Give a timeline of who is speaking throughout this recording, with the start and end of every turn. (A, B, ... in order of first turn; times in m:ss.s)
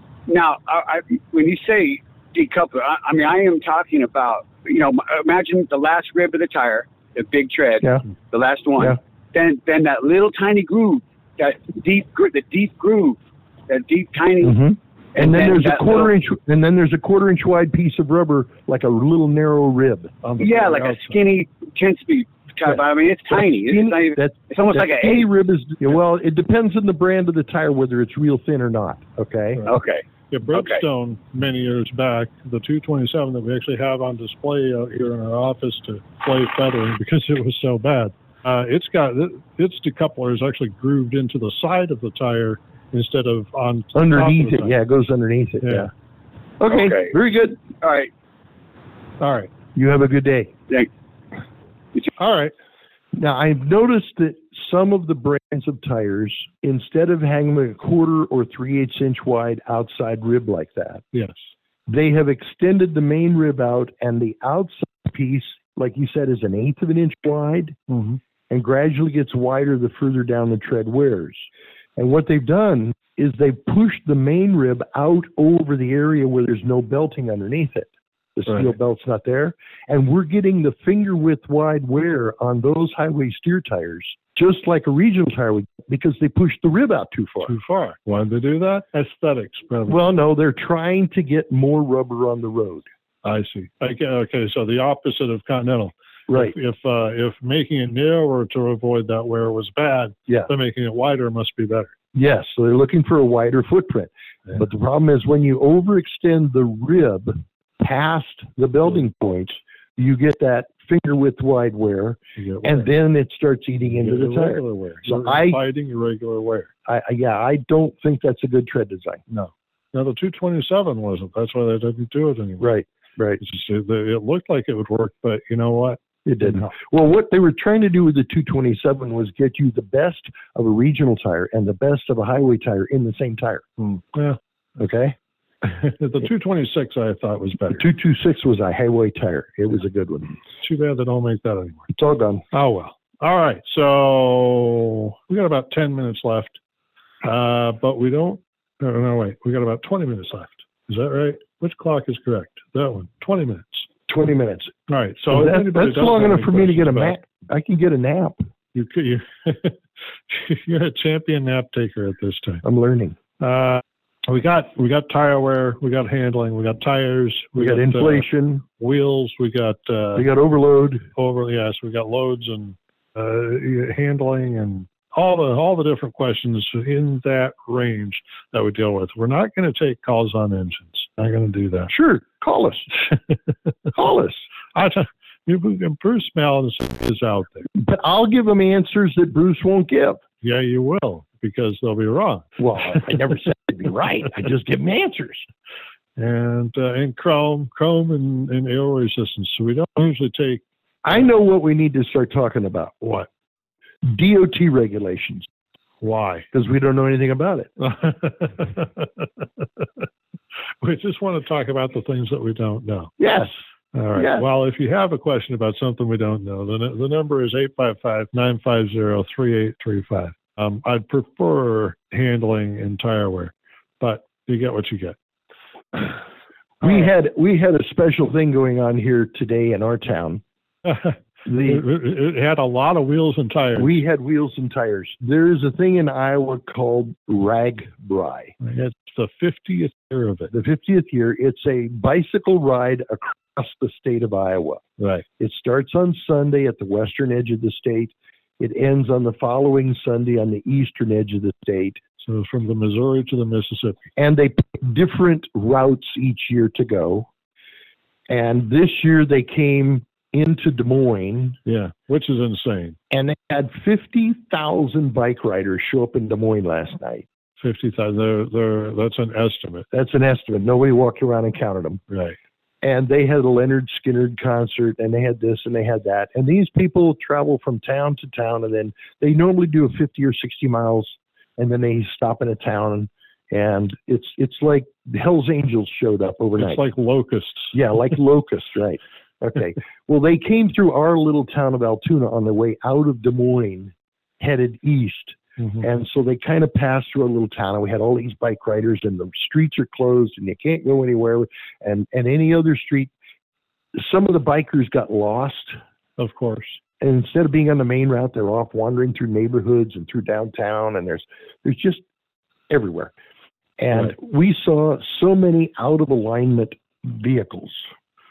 0:00.3-0:14.6 A
0:14.4-0:20.1 B
0:15.2-0:16.1 A
0:20.2-0:21.2 C
0:20.4-0:25.3 A
0:23.3-0:29.6 B
0:29.7-0:30.0 A
0:30.3-0:44.8 C
0:30.5-0:30.8 A
0:43.9-0:45.9 B
0:45.6-0:45.9 C
0:46.6-0:47.6 B
0:46.7-0:47.2 A
0:47.8-0:48.1 A
0:49.2-0:49.5 C
0:49.8-0:50.5 B
0:52.2-0:52.5 C
0:53.2-1:01.0 B
1:01.1-1:01.4 C
1:01.9-1:07.8 B
1:07.9-1:08.2 C
1:08.5-1:11.5 B
1:12.0-1:27.6 B
1:18.5-1:18.7 C
1:27.4-1:30.0 C
1:29.9-1:32.9 B
1:33.2-1:41.9 C
1:36.3-1:36.6 B
1:42.1-1:55.6 B
1:52.4-1:52.9 C
1:54.0-1:56.7 C
1:56.9-1:59.2 B
1:59.3-2:02.7 C
2:02.6-2:03.4 B
2:03.4-2:06.7 C
2:06.3-2:13.7 B
2:13.8-2:14.4 C
2:14.8-2:15.2 B
2:15.6-2:17.9 C
2:17.8-2:20.4 B
2:20.6-2:21.9 C
2:21.9-2:22.4 B
2:22.5-2:26.6 C
2:27.2-2:33.9 C
2:34.1-2:34.7 B
2:34.9-2:37.2 C
2:35.3-2:38.4 B
2:38.7-2:42.6 C
2:42.6-2:43.2 B
2:43.4-2:50.3 C
2:47.6-2:48.6 B
2:50.2-2:51.1 B
2:51.2-3:01.9 C
3:01.9-3:02.9 B
3:03.9-3:04.5 B
3:04.7-3:07.7 C
3:07.8-3:10.2 B
3:10.4-3:13.1 C
3:12.6-3:15.5 B
3:16.2-3:20.6 C
3:21.0-3:23.0 B
3:23.0-3:23.3 C
3:24.0-3:25.5 B
3:26.0-3:26.5 C
3:26.5-3:27.7 B
3:27.8-3:30.1 C
3:30.8-3:33.1 C
3:33.2-3:33.6 B
3:33.9-3:45.2 C
3:34.2-3:34.5 B
3:46.8-3:50.4 B
3:50.8-3:54.0 C
3:51.5-3:51.8 B
3:53.8-3:58.6 B
3:58.6-4:00.5 C
4:00.5-4:04.8 B
4:05.0-4:05.2 C
4:05.4-4:12.0 B
4:12.2-4:14.0 C
4:14.2-4:17.3 B
4:18.3-4:21.6 B
4:21.7-4:23.0 C
4:23.1-4:27.2 B
4:27.6-4:29.9 C
4:29.9-4:32.0 B
4:32.1-4:32.4 C
4:32.8-4:46.8 B
4:46.6-4:47.8 C
4:47.7-5:03.1 B
4:55.6-4:55.8 C
5:04.0-5:05.8 B
5:06.2-5:06.8 C
5:07.0-5:12.0 B
5:12.7-5:13.1 B
5:13.8-5:17.9 B